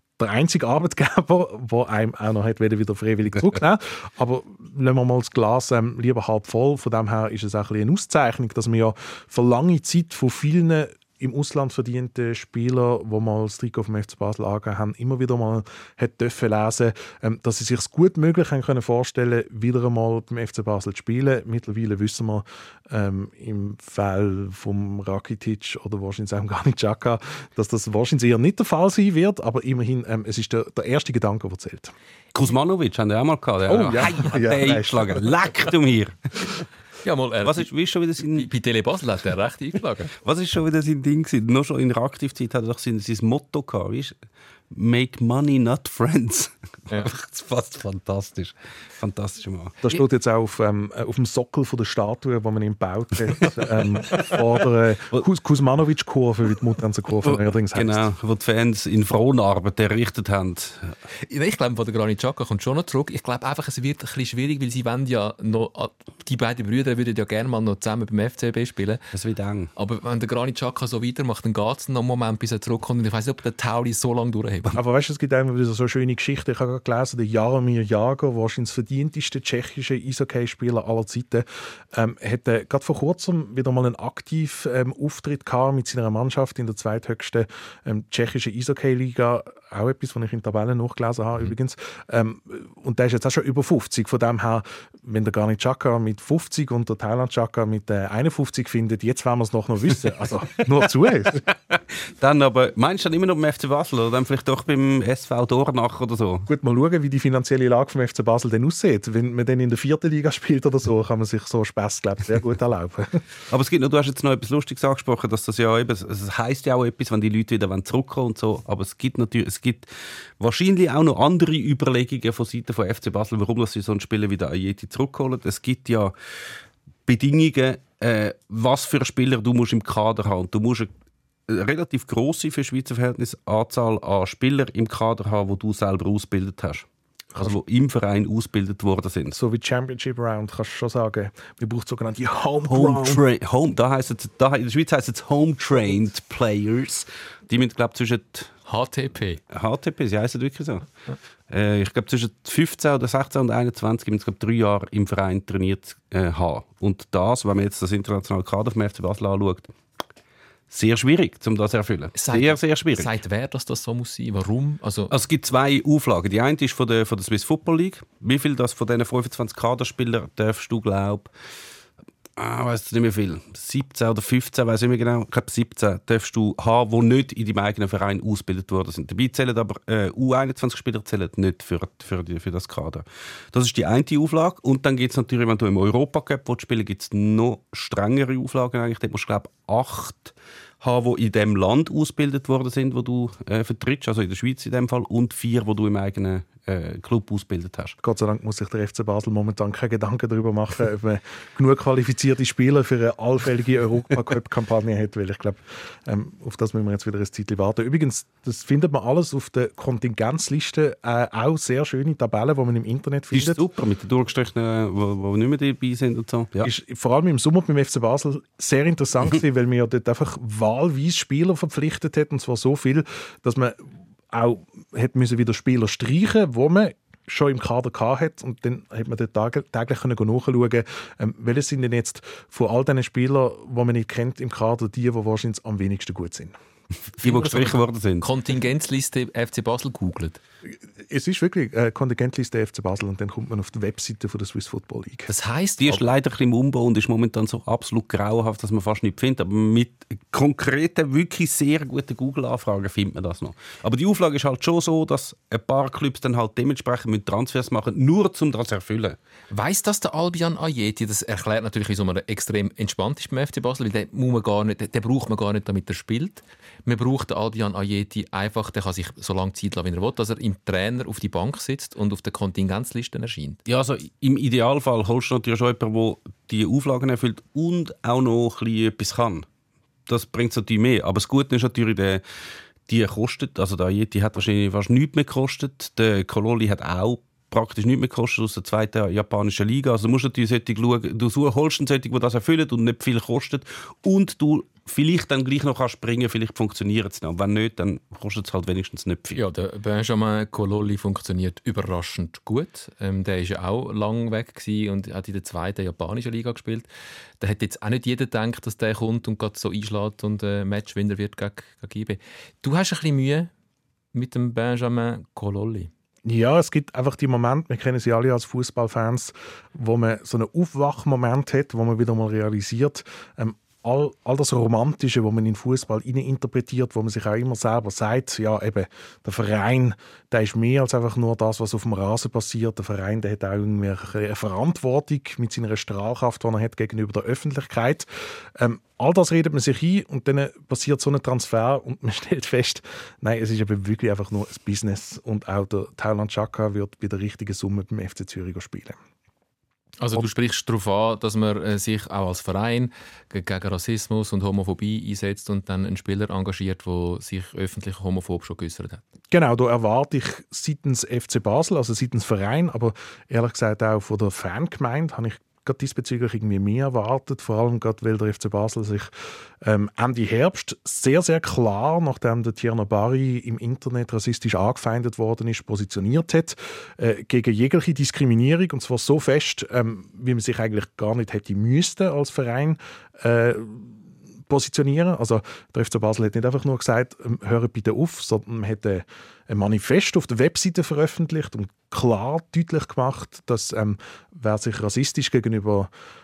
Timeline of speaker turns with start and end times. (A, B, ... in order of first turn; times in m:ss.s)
0:00.2-0:31.9 A
0:32.4-0:36.2 B
0:33.7-0:35.3 A
0:37.0-0:37.7 C
0:37.4-0:38.5 B
0:38.2-0:40.1 C
0:40.2-0:44.2 B
0:44.7-0:49.8 B
0:49.8-0:58.0 A
0:57.2-1:01.0 B
1:01.3-1:09.0 C
1:09.1-1:09.7 B
1:09.8-1:14.8 C
1:14.7-1:41.4 A
1:41.7-1:46.5 B
1:46.5-1:53.2 A
1:53.5-2:06.1 B
2:07.1-2:10.9 B
2:11.5-2:16.9 B
2:17.4-2:19.4 B
2:19.4-2:23.2 A
2:22.7-2:28.5 B
2:28.7-2:29.4 C
2:29.5-2:30.9 B
2:31.5-2:39.7 B
2:40.7-2:43.1 B
2:42.2-2:45.1 C
2:45.1-2:51.3 B
2:52.4-3:18.0 B
3:18.0-3:33.6 A
3:33.3-3:36.7 B
3:36.6-3:56.5 A
3:57.2-3:58.3 B
3:57.2-4:00.4 C
4:01.0-4:05.3 A
4:05.3-4:06.0 C
4:05.8-4:19.2 B
4:19.5-4:33.6 C
4:33.7-4:39.5 B
4:40.1-4:42.2 B
4:42.9-4:59.4 B
4:59.4-5:06.9 C
5:07.4-5:13.5 C
5:14.1-5:15.9 C
5:16.2-5:49.0 A
5:50.0-5:59.0 C
5:59.3-6:09.1 A
6:09.6-6:35.9 A